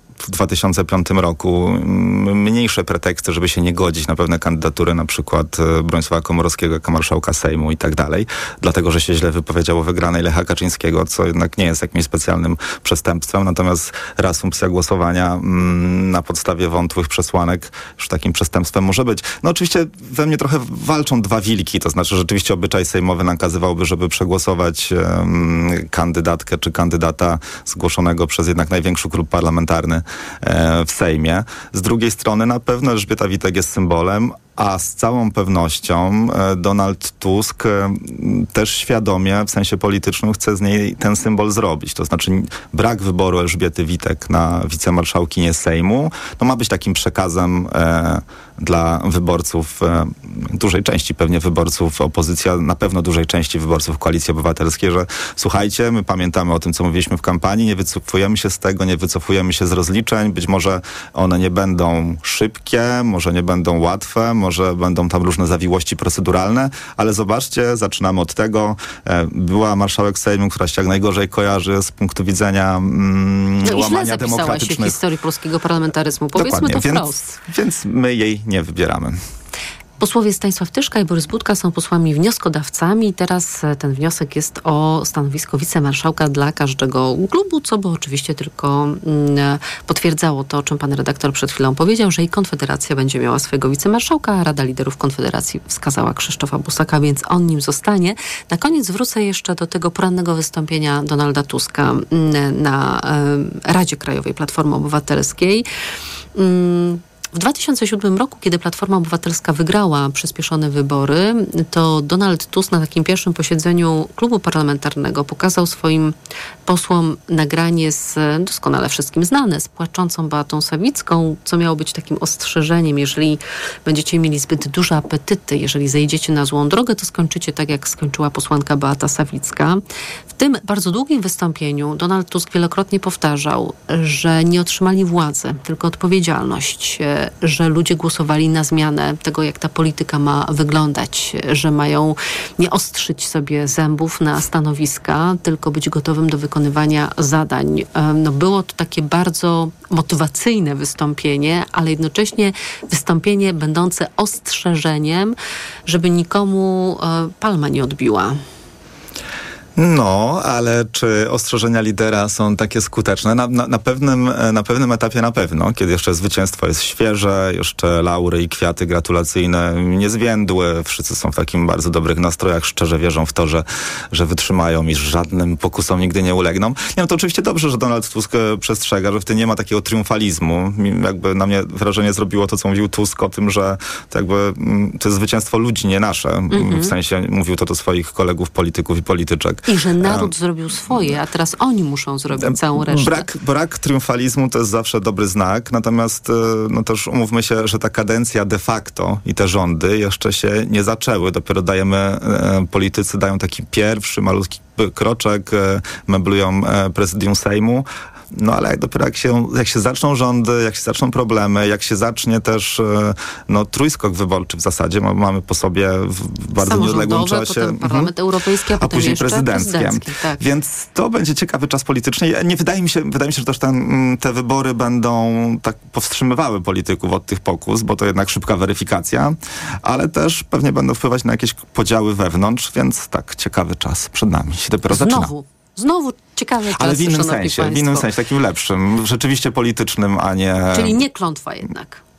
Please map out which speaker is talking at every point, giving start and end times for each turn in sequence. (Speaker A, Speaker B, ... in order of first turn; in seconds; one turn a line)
Speaker A: 0.2-75.0
Speaker B: 73.6-77.4
Speaker A: 76.3-79.2
Speaker B: 80.0-105.6
Speaker B: 106.3-116.1
Speaker B: 116.7-129.8
Speaker B: 130.3-155.3
Speaker B: 155.9-158.4
Speaker A: 159.8-190.3
Speaker B: 186.5-186.9
Speaker B: 189.7-193.3
Speaker A: 192.3-218.1
Speaker B: 216.6-220.4
Speaker A: 218.8-235.3
Speaker B: 234.8-238.1
Speaker A: 236.7-241.0
Speaker B: 240.7-242.0